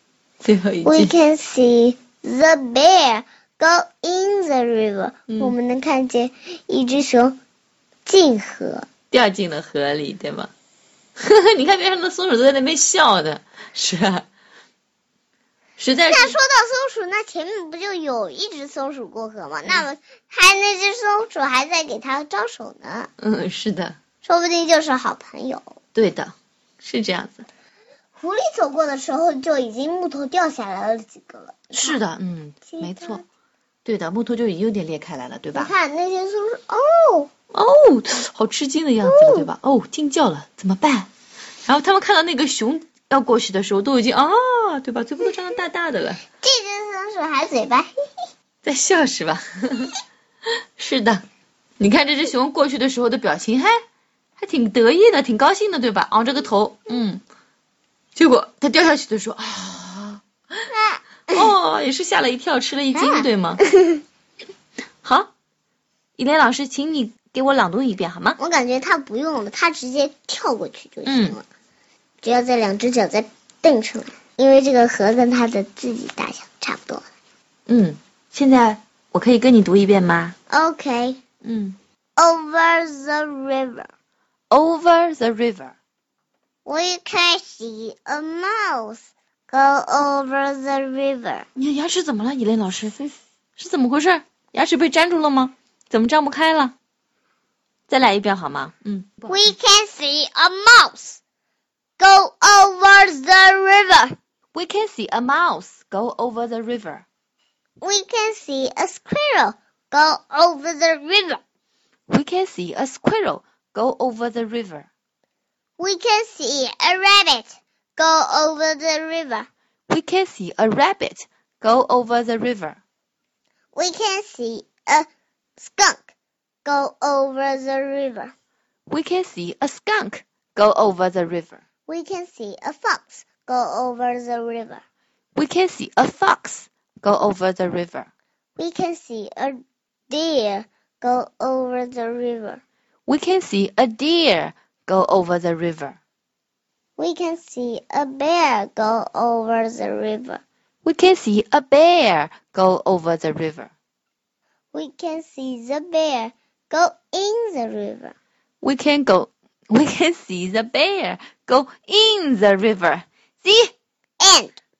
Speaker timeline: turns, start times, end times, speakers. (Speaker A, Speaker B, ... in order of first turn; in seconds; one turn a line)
Speaker A: 0.4-1.1
Speaker B: 0.8-7.4
Speaker A: 5.3-5.5
Speaker B: 8.1-8.8
Speaker A: 9.1-10.5
Speaker A: 11.2-14.2
Speaker A: 15.8-16.4
Speaker B: 16.1-23.1
Speaker A: 23.2-24.0
Speaker B: 24.2-25.7
Speaker A: 25.9-27.4
Speaker B: 28.1-32.0
Speaker A: 31.7-33.2
Speaker B: 32.7-33.2
Speaker A: 33.8-35.7
Speaker B: 35.5-37.3
Speaker A: 37.5-41.1
Speaker B: 39.0-39.5
Speaker A: 41.6-46.2
Speaker B: 46.4-47.9
Speaker A: 48.6-50.0
Speaker A: 50.8-51.2
Speaker A: 51.8-53.8
Speaker A: 54.4-57.2
Speaker A: 58.1-60.7
Speaker B: 60.7-61.4
Speaker A: 61.3-63.6
Speaker B: 62.9-64.0
Speaker A: 65.0-65.3
Speaker A: 66.2-68.4
Speaker B: 68.4-71.4
Speaker A: 71.0-71.4
Speaker B: 72.2-77.0
Speaker A: 77.7-80.3
Speaker B: 80.5-81.2
Speaker A: 81.4-81.8
Speaker B: 82.2-83.9
Speaker A: 84.5-85.7
Speaker B: 86.6-91.5
Speaker A: 91.5-96.7
Speaker A: 97.9-99.5
Speaker B: 99.3-101.2
Speaker B: 102.0-104.1
Speaker A: 104.5-107.0
Speaker B: 107.8-111.4
Speaker A: 112.1-114.9
Speaker B: 115.8-119.5
Speaker A: 119.9-122.8
Speaker B: 123.7-125.1
Speaker B: 125.6-126.1
Speaker B: 126.6-128.3
Speaker A: 128.9-131.6
Speaker B: 131.9-134.8
Speaker A: 135.3-138.1
Speaker B: 138.6-142.6
Speaker A: 143.1-146.0
Speaker B: 147.0-150.4
Speaker A: 150.8-153.7
Speaker B: 154.7-158.1
Speaker A: 158.6-163.7
Speaker B: 164.2-164.6